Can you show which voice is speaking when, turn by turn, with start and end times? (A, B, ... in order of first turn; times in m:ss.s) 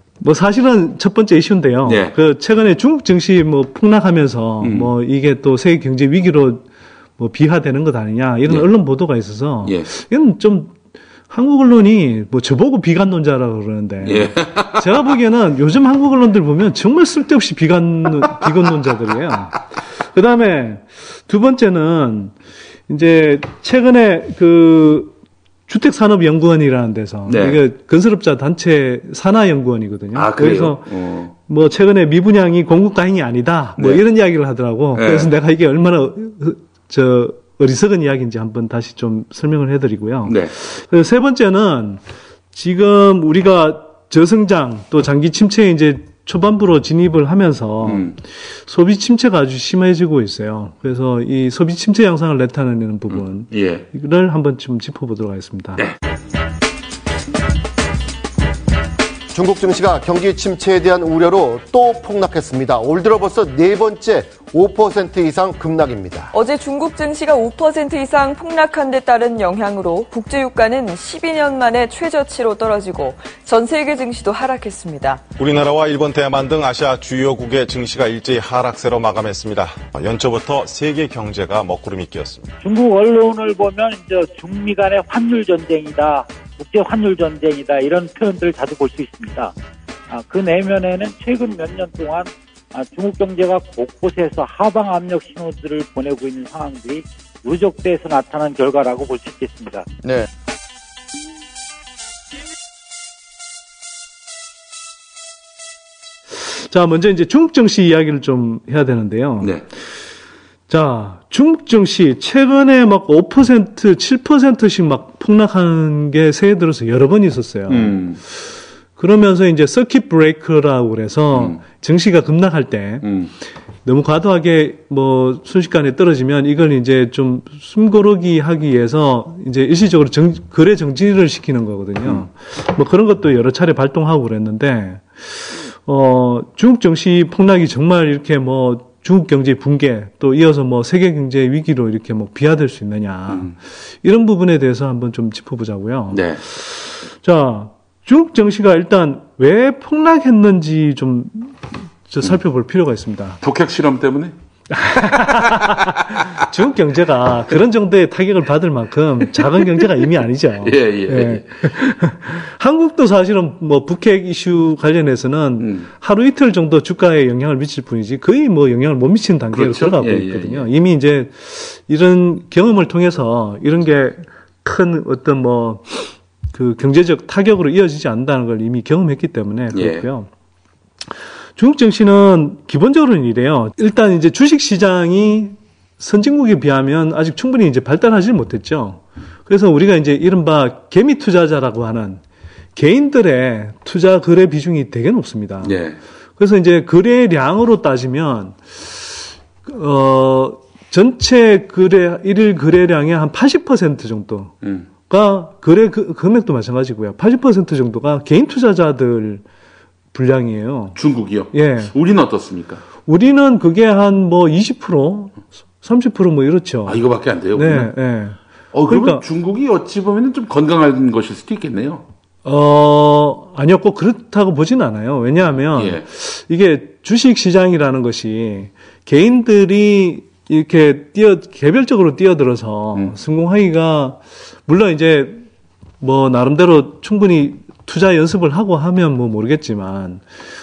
0:00.2-0:06.6 A
0:01.8-0:02.1 B
0:04.6-0:04.9 B
0:07.2-0:10.7 A
0:09.6-0:09.9 B
0:11.3-0:22.3 A
0:14.0-0:15.0 B
0:22.9-0:25.1 A
0:25.7-0:42.0 A
0:27.2-0:27.6 B
0:30.1-0:31.3 B
0:33.8-0:34.0 B
0:34.9-0:35.3 B
0:40.2-0:40.5 B
0:42.5-0:55.8 A
0:47.8-0:48.2 B
0:53.1-0:53.8 B
0:59.3-1:06.3 C
1:06.3-1:15.2 D
1:15.4-1:22.4 E
1:22.6-1:29.5 F
1:30.1-1:39.8 F
1:46.4-1:49.5 A
1:50.7-1:58.0 A
1:57.7-1:58.2 B
1:59.0-2:03.1 A
2:01.3-2:01.6 B
2:03.0-2:03.3 B
2:03.8-2:33.4 A
2:23.3-2:23.5 B
2:26.1-2:26.4 B
2:33.4-2:34.3 B
2:34.7-3:00.3 A
2:35.0-2:36.3 B
2:39.4-2:39.9 B
2:40.6-2:41.8 B
2:45.6-2:45.9 B
2:49.5-2:50.7 B
2:59.7-3:00.0 B
3:01.6-3:12.2 A
3:12.7-3:15.8 A
3:15.6-3:16.0 B
3:16.4-3:24.5 A
3:24.6-3:24.9 B
3:25.1-3:29.4 A
3:30.1-3:31.0 A
3:30.9-3:32.8 B
3:31.5-3:31.9 A
3:33.0-3:39.2 A
3:36.8-3:37.9 B
3:38.7-3:42.0 B
3:42.4-3:55.4 A
3:45.7-3:46.0 B
3:56.0-4:00.2 A